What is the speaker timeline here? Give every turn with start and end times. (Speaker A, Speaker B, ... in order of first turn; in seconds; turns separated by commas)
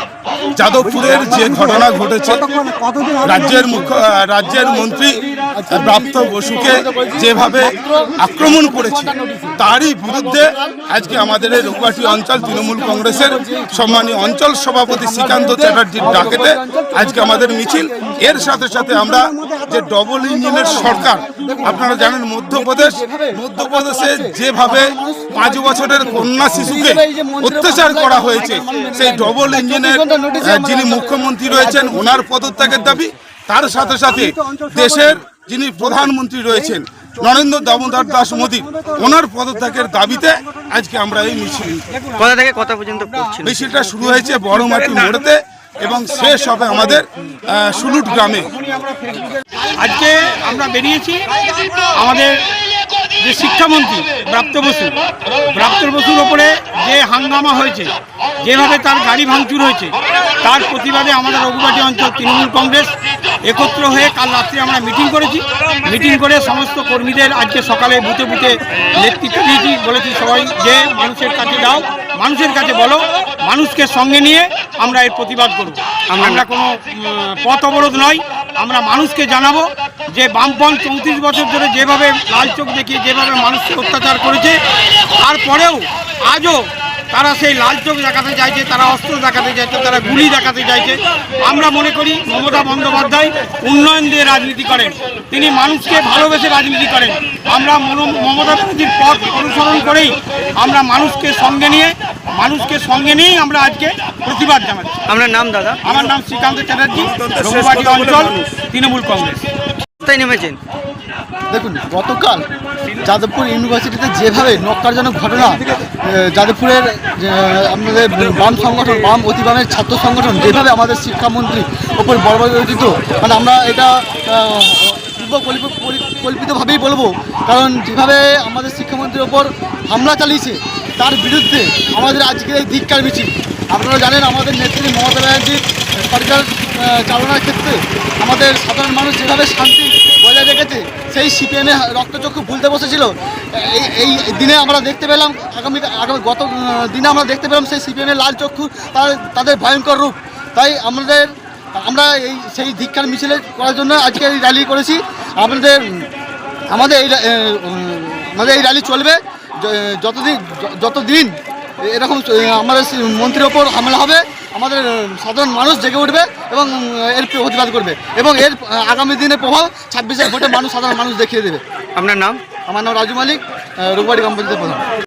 Speaker A: 0.5-2.7, Speaker B: 1.1-1.6, Speaker B: 2.9-3.1, Speaker A: 3.2-42.0, Speaker B: 4.7-14.1, Speaker B: 14.9-19.6, Speaker B: 20.5-33.0, Speaker C: 42.2-43.7, Speaker D: 43.0-43.4, Speaker A: 43.4-47.1, Speaker D: 44.1-45.2, Speaker D: 46.1-47.0, Speaker A: 47.6-48.5, Speaker D: 48.0-52.4, Speaker D: 53.2-57.9, Speaker D: 58.4-62.9, Speaker D: 63.4-84.6, Speaker C: 76.1-76.4, Speaker D: 85.2-105.0, Speaker C: 105.1-105.8, Speaker D: 105.8-109.4, Speaker A: 106.9-108.4, Speaker C: 110.0-110.6, Speaker B: 111.5-112.5, Speaker B: 113.0-156.1, Speaker B: 156.7-171.6, Speaker C: 172.0-172.4, Speaker B: 172.7-174.9